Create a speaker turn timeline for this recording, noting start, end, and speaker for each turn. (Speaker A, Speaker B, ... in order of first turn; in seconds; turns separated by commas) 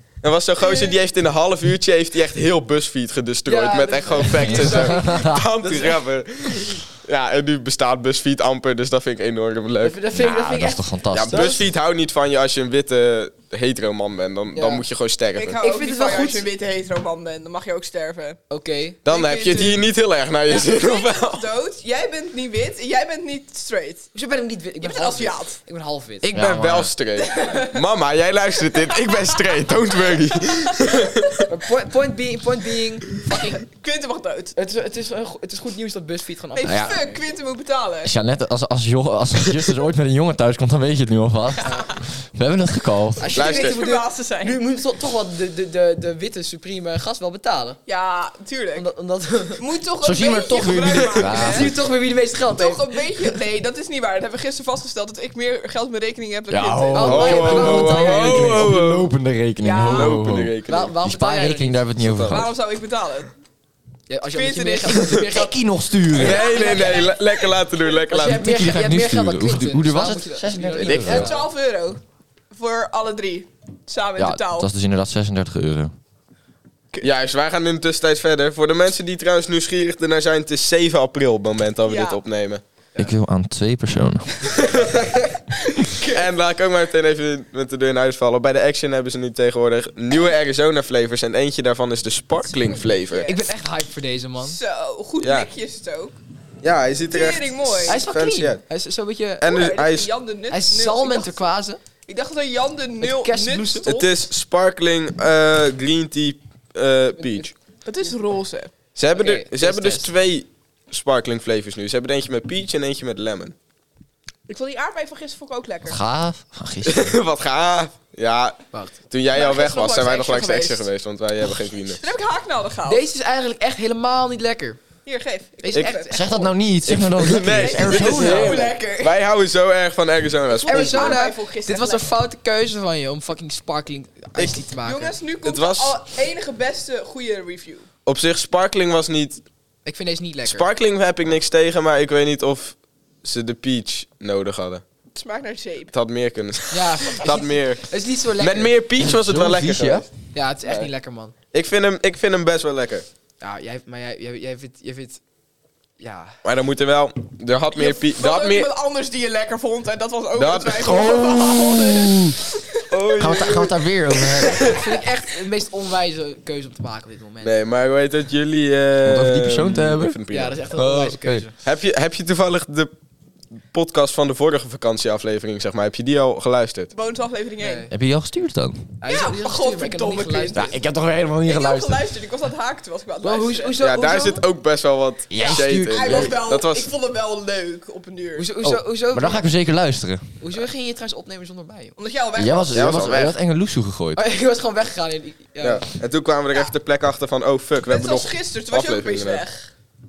Speaker A: 0.2-10.0, Speaker B: 0.6-1.0, Speaker C: 3.5-6.0, Speaker D: 4.4-5.5, Speaker C: 9.8-11.7, Speaker D: 10.1-11.6, Speaker A: 11.1-15.6, Speaker C: 14.5-14.8, Speaker B: 15.3-18.4, Speaker C: 15.6-16.5, Speaker C: 18.5-19.0, Speaker B: 19.1-19.9, Speaker A: 19.1-21.4, Speaker B: 20.4-24.1, Speaker C: 24.1-26.3, Speaker B: 24.8-25.6, Speaker D: 26.2-26.9, Speaker A: 26.4-31.4, Speaker B: 27.2-27.7, Speaker B: 28.9-29.5, Speaker C: 31.5-33.6, Speaker B: 33.3-34.5, Speaker C: 34.5-37.2, Speaker B: 36.5-38.1, Speaker D: 36.6-37.0, Speaker D: 38.0-43.3, Speaker B: 41.6-41.9, Speaker C: 43.2-47.8, Speaker B: 43.3-44.6, Speaker A: 43.3-43.8, Speaker B: 47.9-48.9, Speaker C: 48.8-49.6, Speaker B: 49.6-51.7, Speaker D: 50.0-51.8, Speaker C: 51.3-53.4, Speaker B: 52.5-58.2, Speaker D: 56.5-62.5, Speaker C: 56.9-58.7, Speaker A: 57.1-59.1, Speaker B: 59.6-60.2, Speaker A: 59.9-60.9, Speaker C: 60.7-61.8, Speaker A: 62.0-62.5, Speaker B: 62.2-63.3, Speaker C: 64.1-65.5, Speaker B: 64.3-65.3, Speaker D: 65.3-66.5, Speaker B: 66.1-67.5, Speaker A: 66.1-68.6, Speaker C: 66.4-67.0, Speaker C: 68.1-71.4, Speaker D: 68.2-71.3, Speaker B: 70.8-72.0, Speaker A: 70.8-71.3, Speaker B: 72.5-74.7, Speaker D: 74.2-75.9, Speaker A: 77.0-82.6, Speaker B: 81.8-82.2, Speaker D: 83.0-84.6, Speaker B: 84.5-86.2, Speaker A: 84.5-85.1, Speaker A: 86.0-93.3, Speaker B: 92.6-93.4, Speaker C: 93.2-94.6, Speaker B: 94.4-96.2, Speaker A: 95.2-95.5, Speaker A: 96.6-98.6, Speaker B: 97.1-98.0, Speaker C: 97.9-99.5, Speaker A: 99.4-100.1, Speaker B: 99.4-101.4, Speaker C: 100.5-101.8, Speaker B: 102.0-104.1, Speaker C: 103.0-103.8, Speaker A: 103.8-107.5, Speaker B: 107.8-108.7, Speaker A: 108.9-113.5, Speaker C: 109.1-110.1, Speaker B: 114.5-116.0, Speaker D: 115.8-117.2, Speaker A: 116.8-118.6, Speaker A: 119.1-122.0, Speaker B: 119.3-120.9, Speaker B: 122.0-123.0, Speaker C: 122.8-124.8, Speaker B: 125.0-126.3, Speaker C: 125.6-126.5, Speaker D: 126.1-128.6, Speaker A: 126.8-131.2, Speaker B: 127.4-129.1, Speaker B: 130.5-132.1, Speaker C: 130.6-135.1, Speaker B: 134.8-137.9, Speaker A: 135.4-135.9, Speaker A: 138.1-139.4, Speaker C: 139.8-140.7, Speaker A: 140.4-144.8, Speaker B: 145.1-145.9, Speaker A: 145.9-150.1, Speaker C: 146.7-148.7, Speaker D: 149.0-150.0, Speaker C: 150.3-151.3, Speaker A: 150.6-150.9, Speaker A: 151.5-153.1, Speaker C: 153.4-155.2, Speaker C: 156.0-156.4, Speaker A: 156.4-158.7, Speaker B: 157.7-163.6, Speaker A: 160.4-161.3, Speaker D: 160.8-162.3, Speaker A: 162.9-163.7, Speaker D: 163.2-164.7, Speaker B: 164.2-164.8, Speaker C: 164.6-167.6, Speaker A: 167.4-170.6, Speaker D: 169.0-170.2, Speaker C: 170.3-171.5, Speaker D: 170.7-171.4, Speaker A: 171.6-172.9, Speaker A: 173.7-176.9, Speaker B: 176.9-177.9, Speaker C: 177.6-177.9, Speaker D: 177.9-178.9, Speaker C: 179.0-180.6, Speaker B: 179.0-180.8, Speaker D: 180.5-182.0, Speaker B: 181.4-183.8, Speaker C: 183.2-184.4, Speaker A: 183.8-186.9, Speaker D: 185.3-186.3, Speaker B: 185.9-188.4, Speaker C: 188.4-189.4, Speaker D: 188.6-190.4, Speaker C: 190.4-191.9, Speaker B: 192.0-193.1, Speaker D: 192.3-194.2, Speaker A: 192.7-193.3, Speaker C: 194.2-195.8, Speaker A: 195.6-199.4, Speaker B: 197.8-199.7